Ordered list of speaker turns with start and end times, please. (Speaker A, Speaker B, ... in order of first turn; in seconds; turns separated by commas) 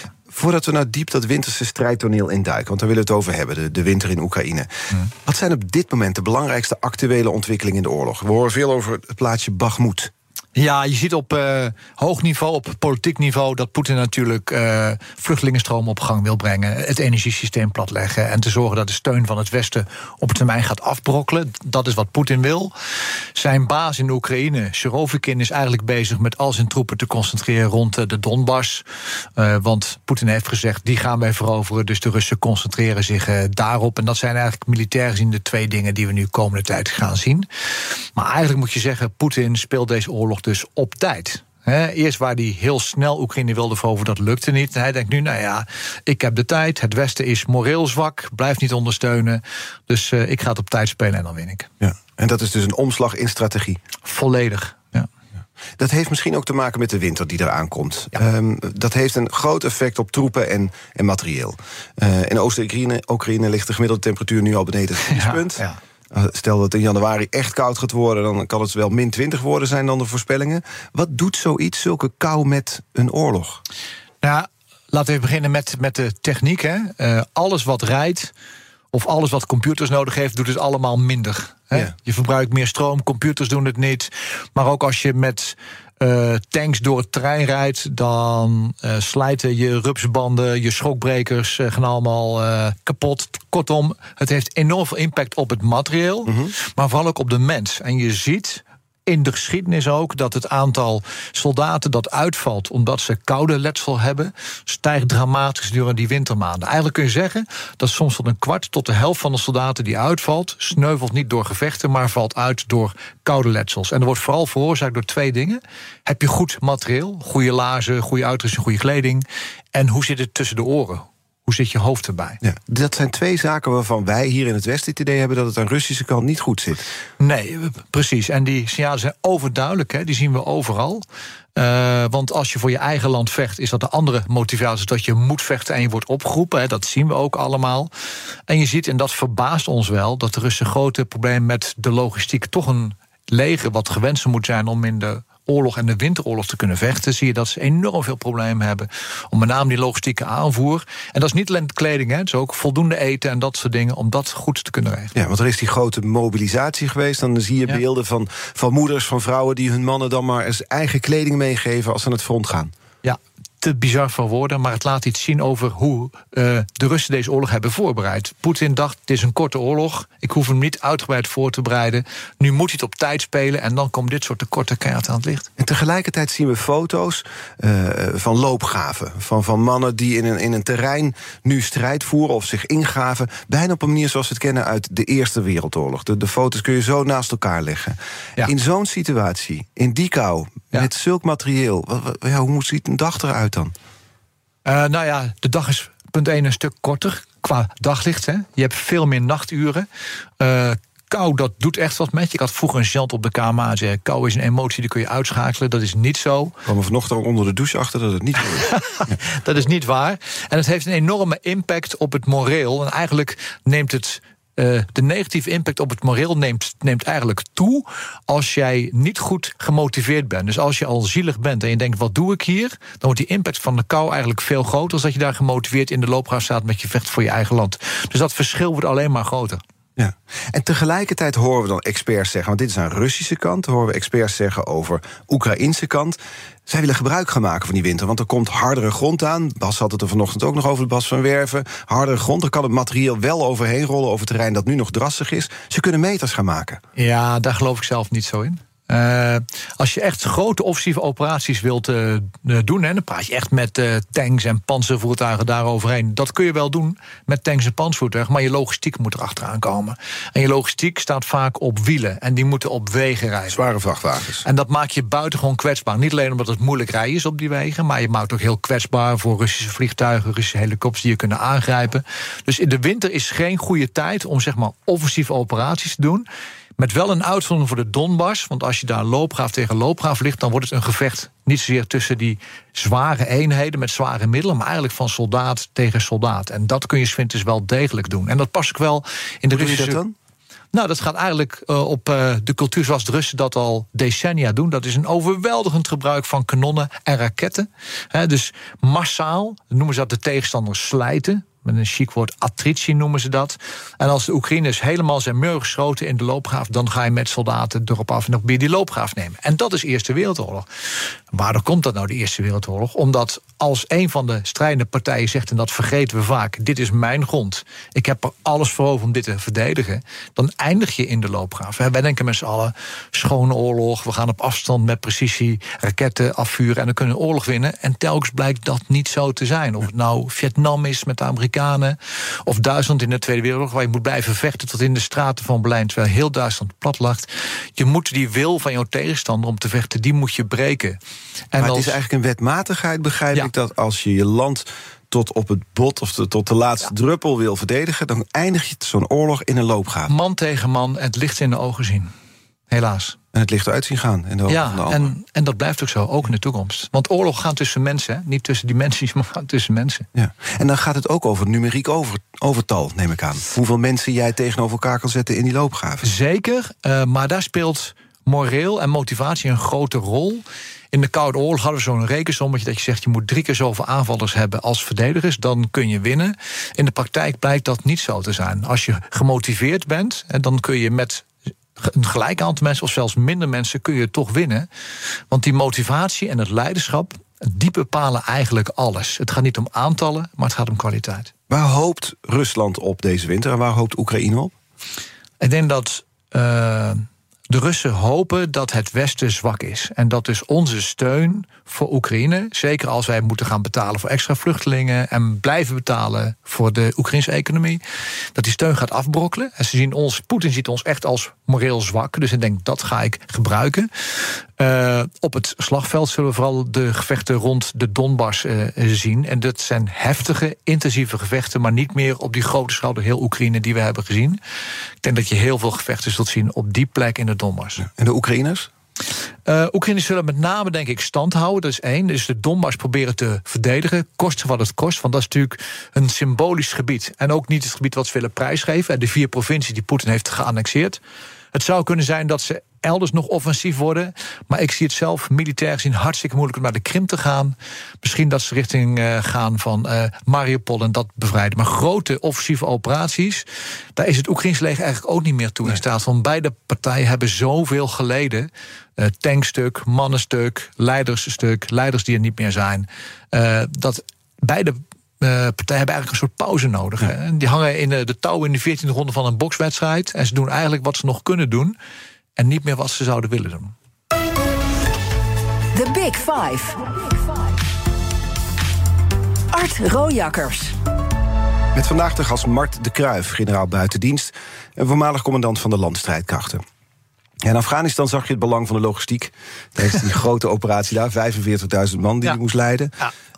Speaker A: 0.3-10.1, Speaker B: 10.6-22.7, Speaker B: 23.3-28.8, Speaker B: 29.4-37.5, Speaker B: 38.1-51.7, Speaker A: 51.8-53.8, Speaker B: 54.0-55.1, Speaker A: 55.8-73.6, Speaker B: 65.1-65.8, Speaker B: 74.2-78.3, Speaker B: 78.9-122.4, Speaker A: 96.2-96.5, Speaker A: 122.4-126.9, Speaker B: 127.2-131.0, Speaker B: 131.6-137.9, Speaker B: 138.5-155.1, Speaker A: 155.1-162.7, Speaker B: 163.0-175.5, Speaker A: 175.6-193.7, Speaker B: 194.6-199.9, Speaker B: 200.4-206.5, Speaker A: 206.7-209.1, Speaker B: 208.7-229.6, Speaker A: 230.0-246.8, Speaker B: 246.9-263.6, Speaker A: 263.5-264.4, Speaker B: 264.4-276.2, Speaker B: 276.8-290.0, Speaker A: 289.5-290.1, Speaker B: 290.7-310.7, Speaker B: 311.3-341.0, Speaker B: 341.5-342.0, Speaker A: 341.6-350.1, Speaker B: 350.1-352.1, Speaker B: 352.7-353.2, Speaker A: 353.3-355.1, Speaker B: 354.5-360.1, Speaker A: 360.1-366.1, Speaker B: 366.0-381.3, Speaker B: 381.8-384.7, Speaker B: 385.3-391.3, Speaker A: 391.5-394.5, Speaker B: 395.4-407.8, Speaker B: 408.3-424.4, Speaker B: 425.0-427.9, Speaker A: 427.9-428.7, Speaker B: 429.4-441.0, Speaker B: 441.5-471.8, Speaker B: 472.4-473.7, Speaker C: 475.7-477.6, Speaker C: 479.5-480.7, Speaker A: 481.7-486.6, Speaker A: 487.4-492.9